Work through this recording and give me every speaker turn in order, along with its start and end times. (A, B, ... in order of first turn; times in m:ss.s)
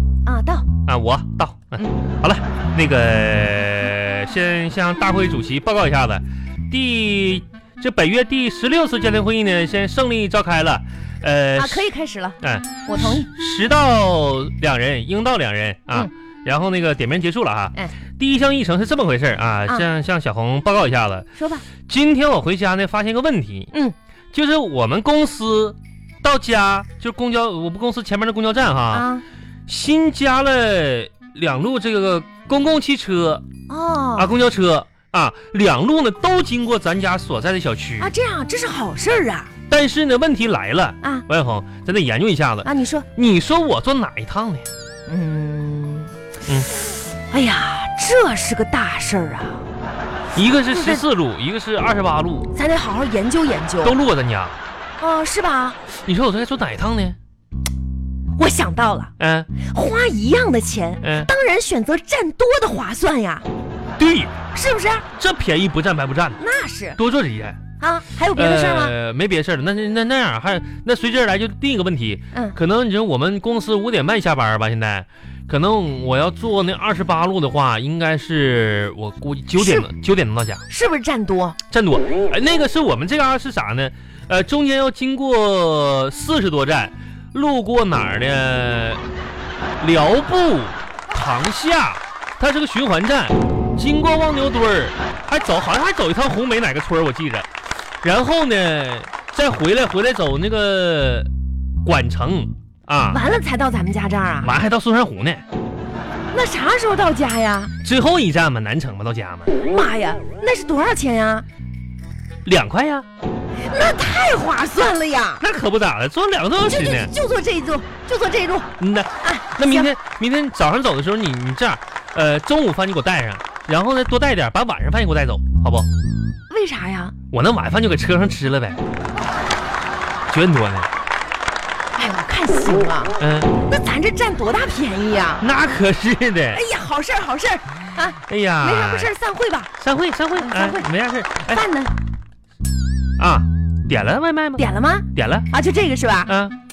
0:00.2-0:00.7 A
0:00.8-0:11.9 B
0:11.5-0:13.3 A
0:12.4-0:21.2 B
0:21.4-0:21.7 A
0:21.9-0:23.7 B
0:24.3-0:29.1 B
0:28.9-0:29.2 A
0:29.7-0:33.4 B
0:33.7-0:34.3 A
0:34.2-0:38.1 B
0:38.0-0:39.5 A
0:39.7-0:44.7 B
0:42.6-0:43.1 A
0:45.1-0:46.1 A
0:46.7-0:49.6 A
0:50.3-0:52.5 B
0:50.7-0:51.0 A
0:52.5-0:54.0 A
0:53.8-0:54.5 B
0:55.0-0:55.8 A
0:56.0-0:57.2 B
0:58.4-1:03.4 A
0:59.2-0:59.5 B
1:01.0-1:01.3 B
1:04.0-1:04.4 B
1:04.5-1:05.1 A
1:05.1-1:06.4 B
1:06.4-1:07.0 A
1:07.0-1:07.6 B
1:07.8-1:08.9 A
1:08.3-1:20.6 B
1:19.6-1:19.9 A
1:20.7-1:21.6 A
1:21.7-1:29.0 B
1:29.8-1:37.5 B
1:38.0-1:41.3 B
1:41.8-1:43.2 B
1:43.1-1:44.5 A
1:44.4-1:45.4 B
1:46.3-1:47.7 A
1:47.8-1:49.5 B
1:49.6-1:51.4 A
1:52.4-1:53.1 B
1:53.6-1:55.4 A
1:55.4-1:57.1 B
1:56.6-1:58.7 A
1:58.8-2:05.9 B
1:59.2-1:59.9 A
2:06.5-2:07.1 A
2:07.3-2:08.8 B
2:10.3-2:10.9 B
2:11.9-2:15.4 A
2:13.2-2:13.5 B
2:15.4-2:16.6 B
2:16.5-2:19.7 A
2:18.3-2:19.1 B
2:19.8-2:21.6 B
2:20.4-2:20.9 A
2:21.4-2:21.9 A
2:23.2-2:25.5 B
2:24.6-2:26.3 A
2:26.3-2:26.6 B